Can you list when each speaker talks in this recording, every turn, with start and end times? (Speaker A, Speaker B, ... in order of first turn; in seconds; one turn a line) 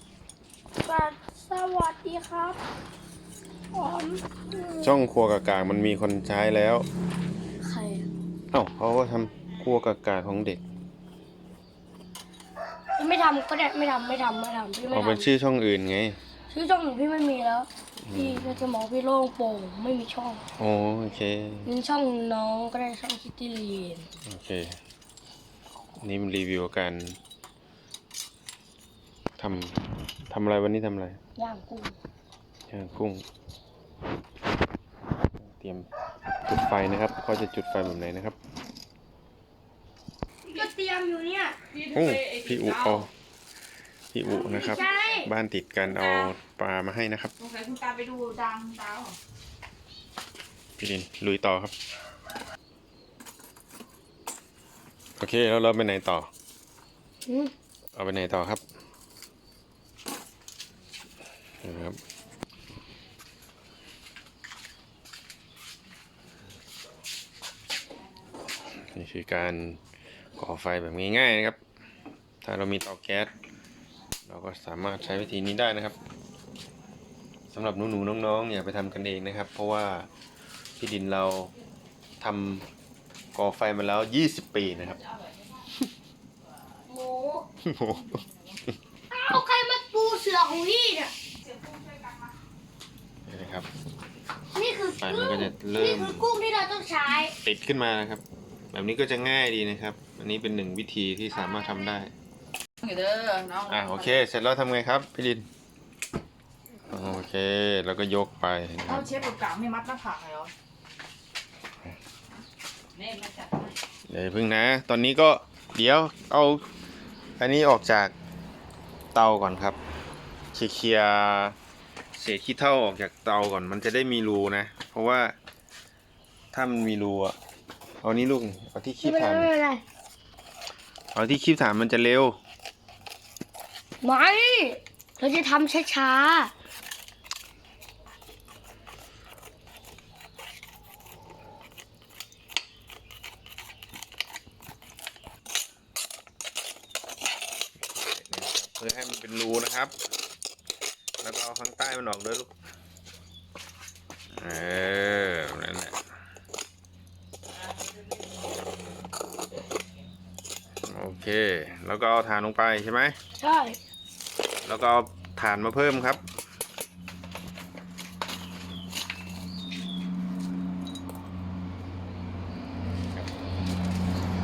Speaker A: 0.8-2.6
Speaker A: 3.7-5.0
Speaker B: 4.8-6.9
Speaker A: 7.6-8.1
Speaker B: 8.5-10.6
Speaker A: 13.0-15.3
Speaker B: 14.9-16.2
Speaker A: 16.5-20.4
Speaker B: 18.0-18.6
Speaker B: 20.6-21.7
Speaker A: 21.7-24.1
Speaker B: 24.2-24.8
Speaker B: 26.0-27.2
Speaker B: 29.4-31.2
Speaker A: 31.4-32.0
Speaker B: 32.7-33.2
Speaker B: 35.4-35.9
Speaker B: 36.5-38.4
Speaker A: 40.5-41.6
Speaker B: 41.8-43.1
Speaker C: 42.0-42.7
Speaker B: 44.1-47.3
Speaker A: 44.3-45.3
Speaker C: 47.4-49.1
Speaker B: 50.8-51.7
Speaker B: 55.2-56.3
Speaker A: 57.3-57.5
Speaker B: 58.0-58.6
Speaker B: 61.6-62.0
Speaker B: 68.8-69.8
Speaker B: 70.4-71.6
Speaker B: 72.4-73.3
Speaker B: 74.3-76.0
Speaker B: 77.5-80.1
Speaker B: 80.8-81.5
Speaker B: 82.2-82.7
Speaker B: 83.3-85.0
Speaker A: 86.9-87.5
Speaker B: 87.7-88.2
Speaker A: 89.1-91.1
Speaker B: 93.3-93.7
Speaker A: 94.5-97.3
Speaker B: 95.0-96.3
Speaker B: 97.4-102.1
Speaker C: 102.8-103.9
Speaker B: 103.7-105.5
Speaker B: 106.9-109.2
Speaker C: 108.9-110.5
Speaker C: 113.0-113.7
Speaker B: 114.1-116.6
Speaker B: 117.4-118.1
Speaker B: 119.1-119.8
Speaker B: 120.5-121.6
Speaker B: 122.2-125.3
Speaker B: 126.5-127.4
Speaker B: 128.0-129.5
Speaker A: 129.0-129.8
Speaker B: 131.2-132.4
Speaker A: 134.0-136.5
Speaker B: 148.1-149.9
Speaker B: 151.2-152.5
Speaker B: 154.4-156.0
Speaker B: 160.8-163.2
Speaker A: 163.4-163.8
Speaker B: 164.6-166.2